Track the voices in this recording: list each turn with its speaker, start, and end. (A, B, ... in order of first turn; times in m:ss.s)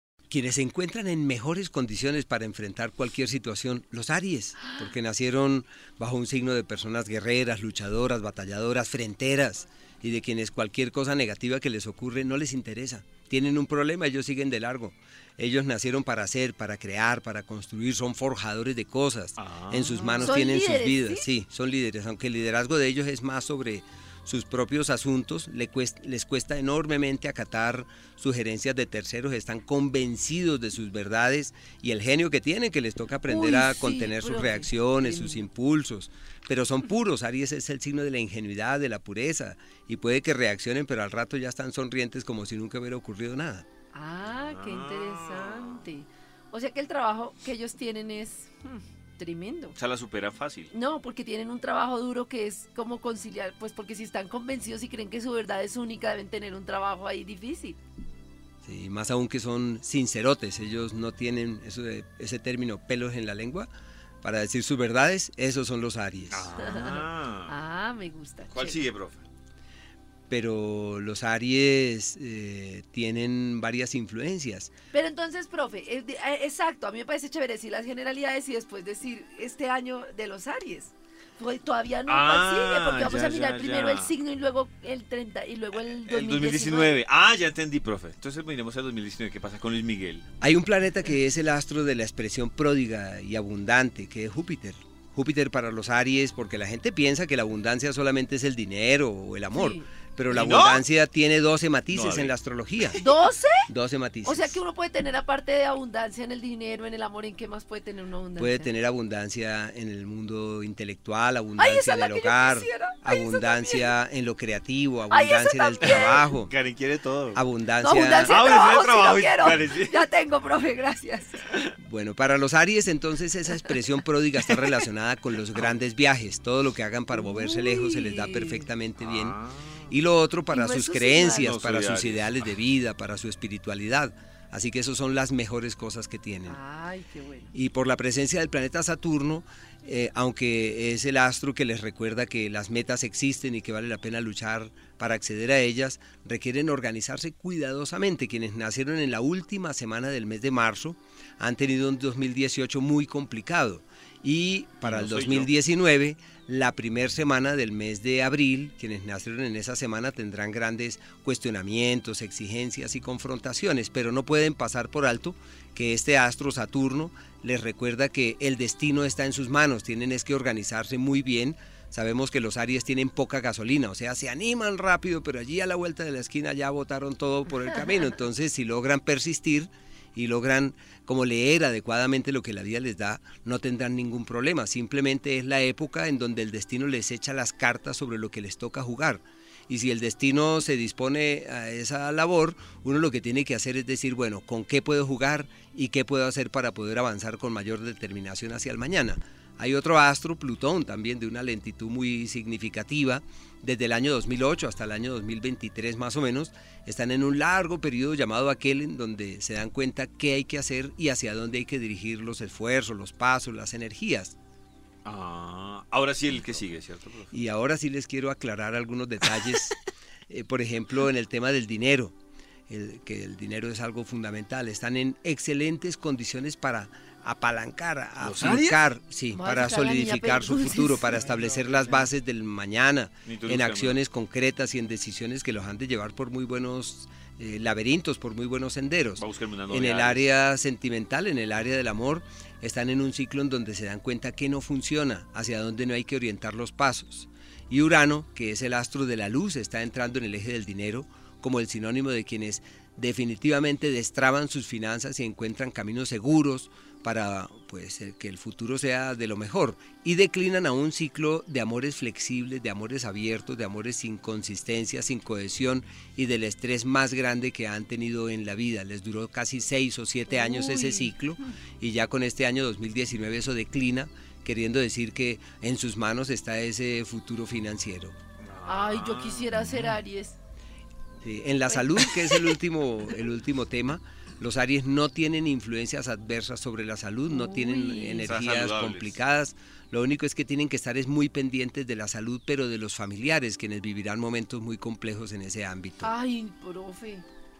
0:00.3-0:43.7 A
0:19.4-0:20.3 B
0:20.2-0:21.3 C
0:33.3-0:35.5 C
0:43.9-0:49.8 C
0:44.2-0:45.8 B
0:49.7-0:50.7 B
0:50.7-0:57.8 C
0:58.6-1:03.7 A
1:04.2-1:06.5 A
1:06.3-1:07.5 B
1:06.6-1:08.8 C
1:08.5-1:09.2 B
1:10.3-1:14.7 A
1:14.9-1:26.9 C
1:22.1-1:24.1 B
1:25.8-1:30.2 B
1:30.4-1:43.0 A
1:39.5-1:39.9 C
1:40.3-1:40.8 B
1:41.9-1:43.1 B
1:43.0-1:43.7 C
1:43.7-1:44.6 A
1:44.2-1:48.7 C
1:48.4-1:56.5 A
1:51.6-1:53.9 C
1:55.1-1:56.2 C
1:55.8-1:57.4 B
1:57.3-1:58.3 A
1:57.8-2:01.4 C
1:58.2-2:00.0 B
2:01.8-2:09.4 A
2:07.1-2:08.7 C
2:09.0-2:09.9 B
2:09.9-2:16.6 A
2:10.5-2:11.5 C
2:11.4-2:12.5 B
2:16.5-2:17.5 C
2:17.5-3:34.3 A
2:34.8-2:35.5 B
3:35.0-3:37.3 B
3:37.3-3:39.8 A
3:40.3-3:42.1 A
3:42.7-4:38.2 A
3:48.2-3:48.8 B
3:49.3-3:51.3 C
3:51.2-3:52.1 B
3:53.2-3:54.0 B
3:59.2-4:00.3 B
4:30.3-4:31.1 C
4:38.4-4:39.6 B
4:38.6-4:40.4 C
4:41.2-4:56.1 A
4:41.7-4:42.5 C
4:47.3-4:48.3 C
4:48.2-4:49.2 B
4:56.0-4:57.2 C